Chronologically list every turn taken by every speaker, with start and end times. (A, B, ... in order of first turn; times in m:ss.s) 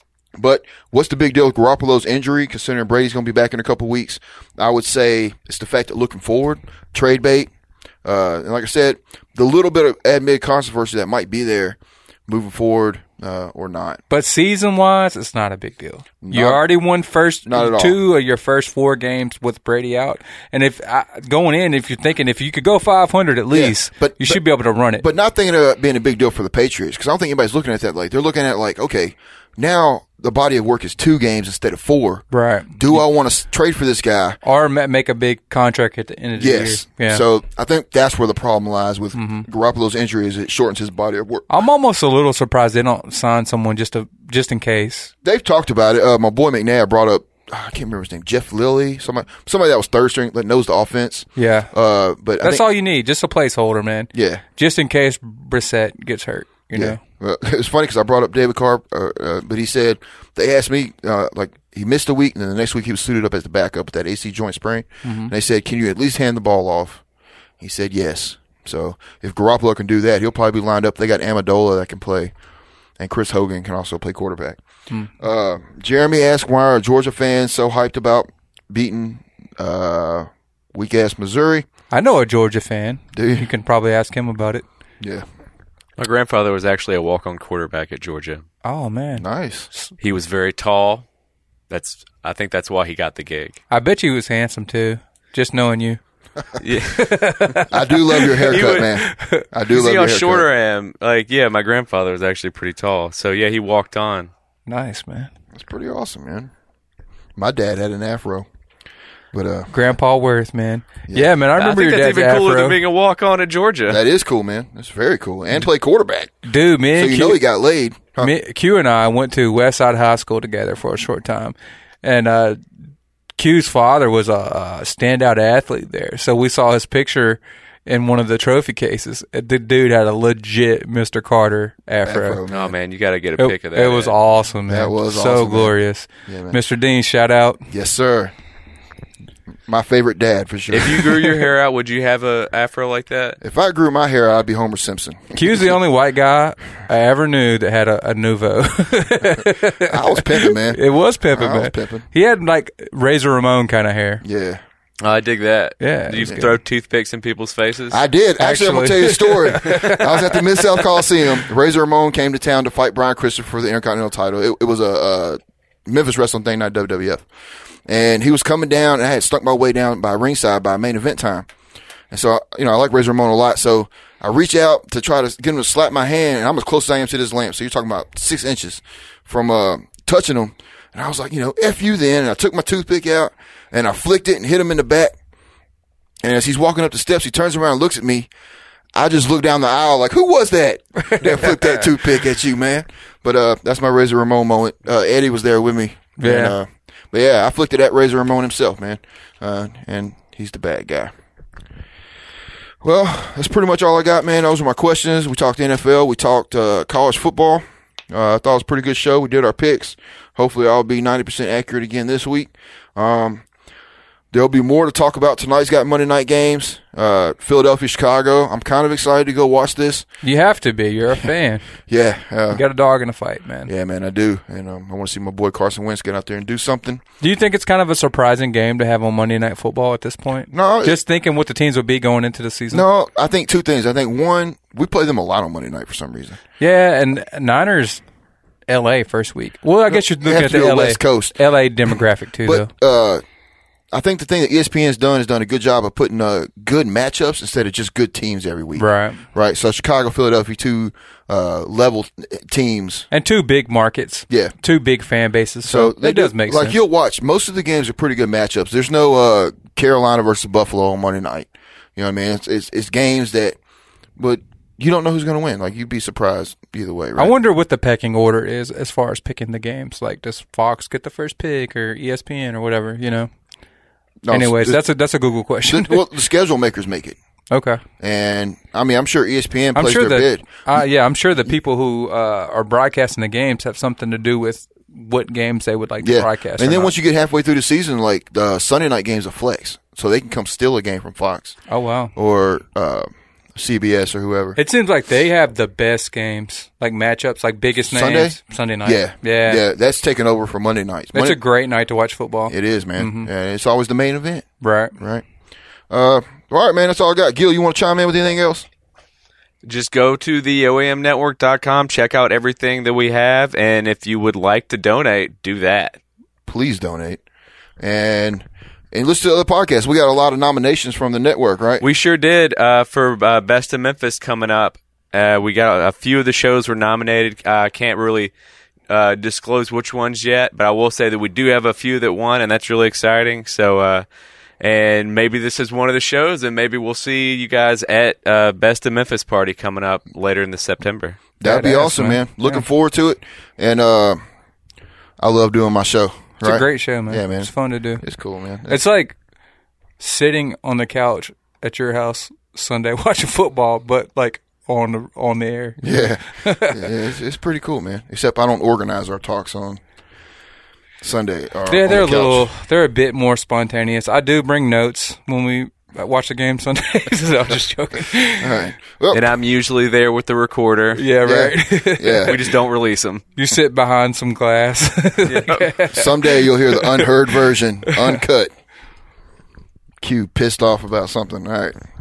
0:00.4-0:07.5 A
0:08.0-0:14.0 A
0:14.1-0:25.0 B
0:16.2-0:16.6 A
0:17.4-0:18.0 A
0:23.5-0:24.4 A
0:25.0-0:34.4 A
0:32.3-0:33.0 B
0:34.4-0:37.2 B
0:36.4-0:41.5 A
0:39.1-0:39.5 B
0:41.5-0:45.1 B
0:45.2-0:52.7 A
0:51.4-0:51.7 B
0:52.4-0:57.0 B
0:54.1-0:54.4 A
0:56.7-1:07.0 A
1:05.0-1:05.3 B
1:07.6-1:12.3 A
1:13.0-1:14.6 A
1:15.2-1:21.7 A
1:21.9-1:24.6 B
1:23.1-1:23.5 A
1:26.0-1:28.4 C
1:28.6-1:29.9 B
1:29.2-1:29.7 A
1:30.0-1:31.0 C
1:31.7-1:33.6 C
1:33.7-1:36.0 B
1:36.6-1:37.6 C
1:36.9-1:39.5 B
1:37.7-1:40.5 A
1:38.5-1:38.9 C
1:39.7-1:44.3 C
1:44.7-1:45.3 B
1:45.5-1:46.5 A
1:47.4-1:48.5 A
1:49.3-1:49.7 A
1:49.7-1:52.8 B
1:51.1-1:51.4 A
1:51.6-1:54.0 C
1:53.9-1:56.4 A
1:56.4-1:57.4 B
1:57.0-1:58.3 A
1:58.2-2:02.6 B
2:03.4-2:12.4 B
2:12.0-2:12.7 A
2:12.5-2:14.2 C
2:13.4-2:17.7 B
2:14.7-2:16.6 A
2:17.7-2:18.3 A
2:19.7-2:21.4 A
2:20.7-2:23.4 C
2:23.4-2:25.7 A
2:25.3-2:34.2 B
2:29.8-2:32.0 A
2:34.2-2:34.6 A
2:35.0-2:38.0 C
2:35.8-2:36.6 B
2:37.9-2:47.3 A
2:38.4-2:40.6 B
2:47.9-2:51.5 A
2:52.1-3:05.1 A
3:06.2-3:08.3 A
3:09.0-3:21.1 A
3:11.2-3:11.8 B
3:16.2-3:16.6 B
3:22.8-3:33.4 A
3:34.3-3:40.1 A
3:40.2-3:41.7 B
3:41.9-3:42.6 A
3:42.5-3:43.7 B
3:43.7-3:47.0 A
3:47.2-3:52.8 B
3:50.5-3:51.0 A
3:52.7-3:56.4 A
3:56.6-3:58.0 B
3:58.7-4:02.7 B
3:59.9-4:01.4 A
4:02.4-4:03.2 A
4:03.9-4:13.1 A
4:08.8-4:09.2 B
4:13.1-4:16.8 B
4:15.6-4:23.6 A
4:24.2-4:27.3 A
4:27.2-4:33.3 B
4:34.2-4:34.8 A
4:34.3-4:36.0 B
4:35.6-4:37.2 A
4:37.5-4:37.8 B
4:38.0-4:40.8 A
4:39.8-4:46.9 B
4:46.0-4:51.6 A
4:51.7-4:52.1 B
4:52.2-4:54.6 A
4:54.6-4:59.6 B
4:57.9-5:01.4 A
5:01.1-5:03.3 B
5:02.5-5:05.2 A
5:04.6-5:05.0 B
5:05.9-5:08.7 A
5:09.6-5:16.0 C
5:16.5-5:17.2 A
5:17.8-5:21.8 A
5:21.8-5:28.3 C
5:28.9-5:34.1 C
5:34.6-5:41.2 C
5:41.4-5:44.2 A
5:41.4-5:42.6 B
5:45.2-5:48.8 A
5:46.4-5:48.0 B
5:48.7-5:49.2 B
5:50.0-5:56.9 B
5:55.8-5:59.8 A
6:01.0-6:02.5 A
6:01.7-6:08.6 B
6:08.4-6:09.3 A
6:09.1-6:11.0 C
6:11.0-6:12.4 B
6:11.2-6:12.4 A
6:12.3-6:13.3 C
6:13.4-6:17.1 B
6:15.3-6:15.7 C
6:15.9-6:18.5 A
6:17.8-6:18.2 B
6:20.0-6:21.8 A